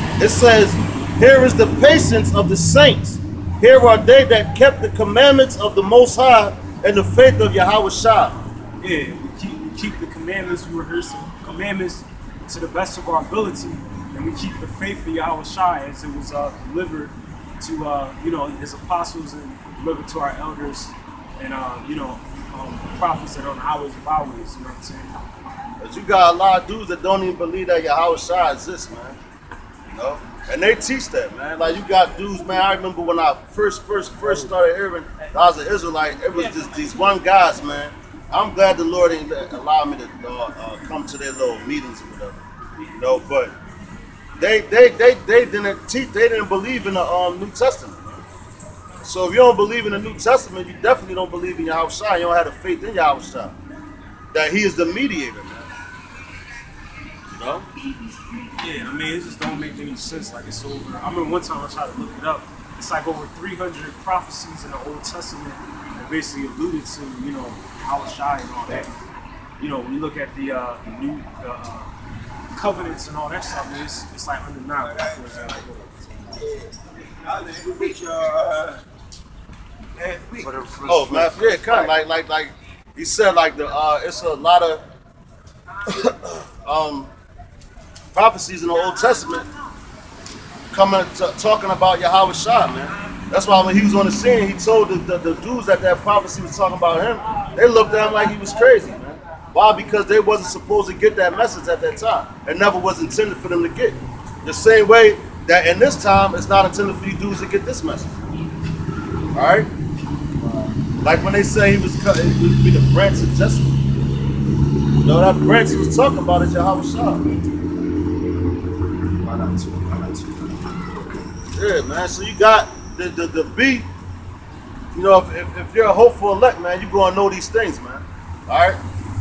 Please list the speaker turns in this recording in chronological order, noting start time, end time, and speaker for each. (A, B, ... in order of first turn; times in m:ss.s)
0:00.2-0:08.4 A
0:08.8-0:25.1 B
0:25.8-0:29.2 A
0:29.9-0:42.4 A
0:43.0-0:43.5 A
0:44.4-0:48.2 A
0:49.0-0:53.6 A
0:54.3-0:55.7 A
0:57.3-0:57.7 A
0:58.6-1:08.9 B
1:09.6-1:11.9 B
1:12.5-1:16.4 B
1:17.3-1:18.8 C
1:20.0-1:21.3 C
1:20.8-1:24.8 A
1:25.8-1:27.1 A
1:28.1-1:29.5 A
1:30.7-1:48.4 A
1:49.3-1:49.7 A
1:50.4-1:50.7 B
1:51.0-1:53.8 A
1:55.0-1:57.2 A
1:59.2-2:00.4 B
2:01.5-2:03.9 A
2:04.9-2:08.8 A